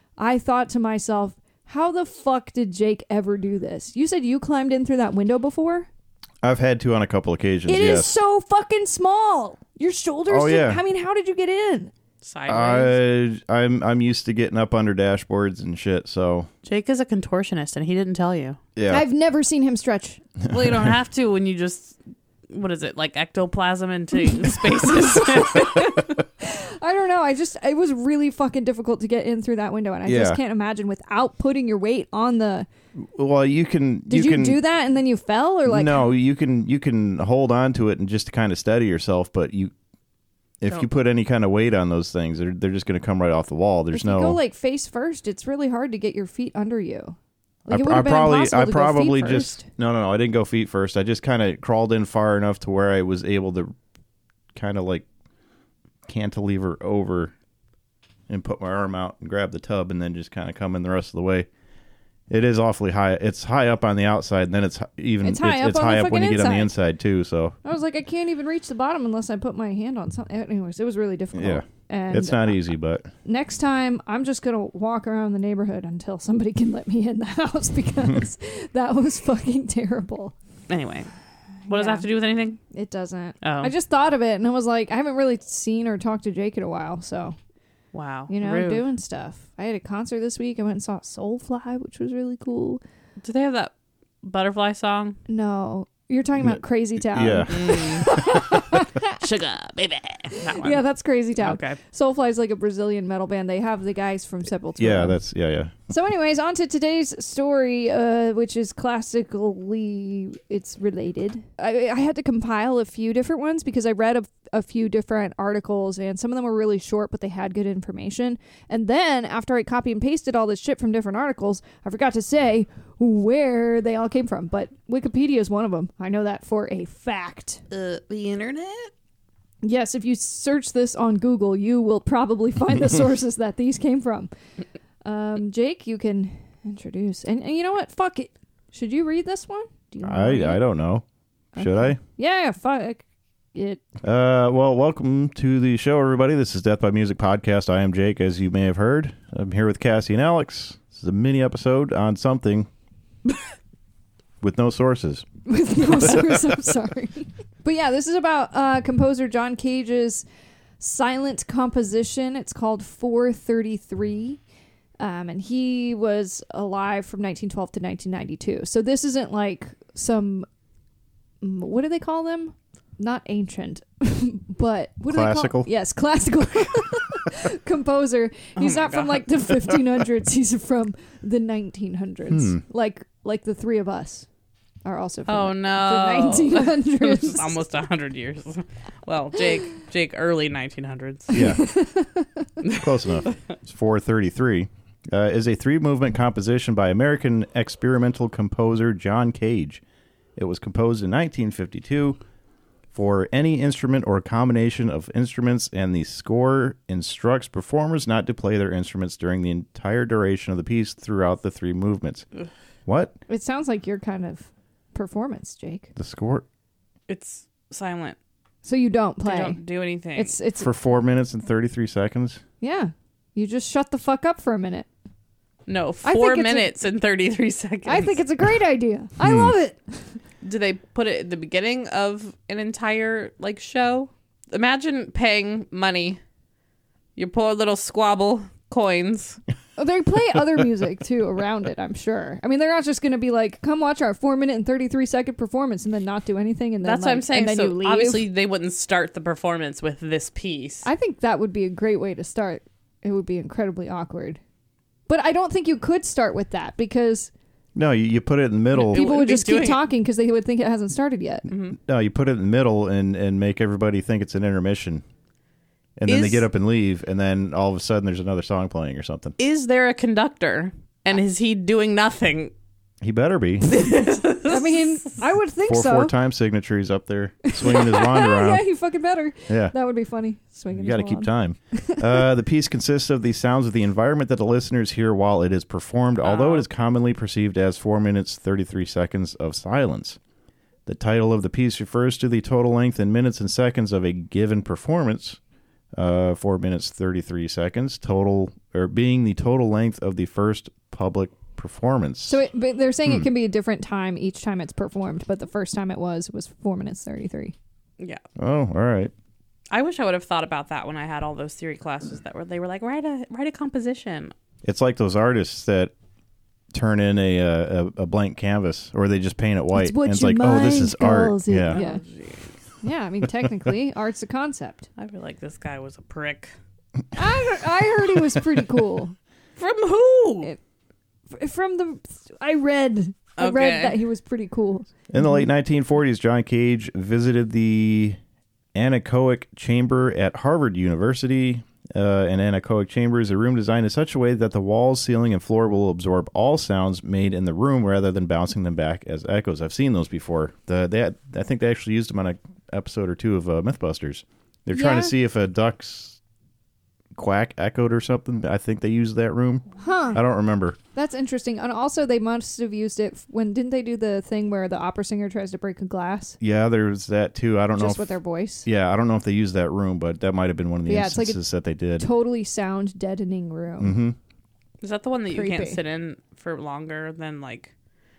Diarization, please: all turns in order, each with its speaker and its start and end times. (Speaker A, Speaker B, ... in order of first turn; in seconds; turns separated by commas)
Speaker A: 0.2-5.9, Speaker B: 6.4-8.1, Speaker A: 7.7-11.9, Speaker B: 10.3-10.8, Speaker C: 12.2-13.0, Speaker B: 12.5-16.5, Speaker C: 16.6-18.6, Speaker B: 18.8-19.0, Speaker A: 18.9-20.2, Speaker B: 20.4-20.9, Speaker C: 20.5-22.0, Speaker C: 22.5-26.2, Speaker A: 25.4-32.7, Speaker B: 30.0-30.4, Speaker B: 33.0-34.6, Speaker A: 34.1-36.0, Speaker B: 35.7-39.7, Speaker B: 40.6-44.4, Speaker A: 43.9-47.2, Speaker B: 47.7-53.7, Speaker A: 47.7-49.7, Speaker B: 54.5-55.0, Speaker B: 56.0-57.3, Speaker B: 58.3-61.5, Speaker B: 62.3-67.6, Speaker A: 65.2-66.7, Speaker A: 67.6-72.6, Speaker B: 71.3-73.1, Speaker A: 73.2-80.3, Speaker C: 80.7-81.1, Speaker A: 81.7-82.1, Speaker C: 81.7-82.6, Speaker A: 82.7-87.3, Speaker C: 83.4-83.7, Speaker C: 87.9-88.8, Speaker A: 88.3-92.8, Speaker C: 93.2-93.7, Speaker C: 94.2-95.2, Speaker A: 95.3-99.2, Speaker B: 97.1-98.2, Speaker C: 97.5-98.2, Speaker C: 99.0-100.8, Speaker A: 100.3-105.2, Speaker C: 101.4-101.8, Speaker B: 104.8-105.7, Speaker A: 105.9-127.6, Speaker C: 127.7-128.9, Speaker A: 129.6-134.3, Speaker A: 135.0-140.6, Speaker B: 140.0-141.0, Speaker A: 141.6-143.8, Speaker B: 141.6-142.0, Speaker B: 144.0-152.7, Speaker B: 154.4-155.2, Speaker A: 155.5-160.2, Speaker B: 155.8-156.6, Speaker A: 160.8-164.4, Speaker A: 165.0-170.5, Speaker A: 171.4-184.3, Speaker B: 175.1-175.7, Speaker C: 178.6-179.2, Speaker B: 182.3-182.6, Speaker A: 184.8-187.6, Speaker C: 185.3-191.4, Speaker A: 191.3-192.5, Speaker B: 191.3-191.6, Speaker C: 192.6-193.4, Speaker B: 192.7-199.8, Speaker B: 200.3-202.2, Speaker B: 202.9-212.2, Speaker B: 212.9-213.2, Speaker A: 213.3-215.9, Speaker B: 216.0-216.4, Speaker C: 217.1-218.2, Speaker A: 218.6-219.6, Speaker C: 219.2-220.3, Speaker A: 220.2-220.7, Speaker B: 220.6-222.4, Speaker A: 222.6-224.9, Speaker C: 225.7-228.2, Speaker A: 226.0-226.7, Speaker A: 227.8-230.2, Speaker B: 229.2-229.5, Speaker C: 230.4-236.2, Speaker C: 237.2-239.4, Speaker A: 239.8-248.2, Speaker C: 246.8-250.9, Speaker A: 250.8-254.4, Speaker A: 255.1-257.3, Speaker B: 257.8-259.0, Speaker C: 258.8-259.8, Speaker A: 258.8-261.5, Speaker C: 261.5-261.8, Speaker B: 261.8-265.0, Speaker B: 266.0-269.4, Speaker C: 266.1-266.5, Speaker C: 269.4-272.5, Speaker B: 273.0-273.8, Speaker C: 273.7-274.9, Speaker A: 274.5-276.1, Speaker B: 275.7-278.6, Speaker A: 277.4-282.2, Speaker B: 279.5-279.7, Speaker B: 280.7-290.2, Speaker C: 286.2-286.6, Speaker B: 290.9-295.4, Speaker B: 296.0-302.4, Speaker A: 302.3-307.5, Speaker B: 308.4-309.1, Speaker C: 309.7-314.3, Speaker B: 314.6-315.9, Speaker B: 316.7-321.8, Speaker A: 319.7-322.0, Speaker C: 321.7-322.5, Speaker A: 322.8-324.9, Speaker C: 325.0-326.5, Speaker A: 327.1-329.1, Speaker C: 329.6-330.5, Speaker A: 331.3-334.9, Speaker C: 333.4-334.0, Speaker B: 335.1-338.2, Speaker B: 338.7-356.2, Speaker A: 354.7-355.1, Speaker B: 357.1-360.8, Speaker A: 359.8-360.2, Speaker A: 360.9-366.4, Speaker B: 366.4-372.1, Speaker A: 367.8-368.7, Speaker A: 370.9-371.4, Speaker A: 372.0-373.9, Speaker B: 373.8-374.1, Speaker C: 374.8-377.7, Speaker A: 375.3-375.8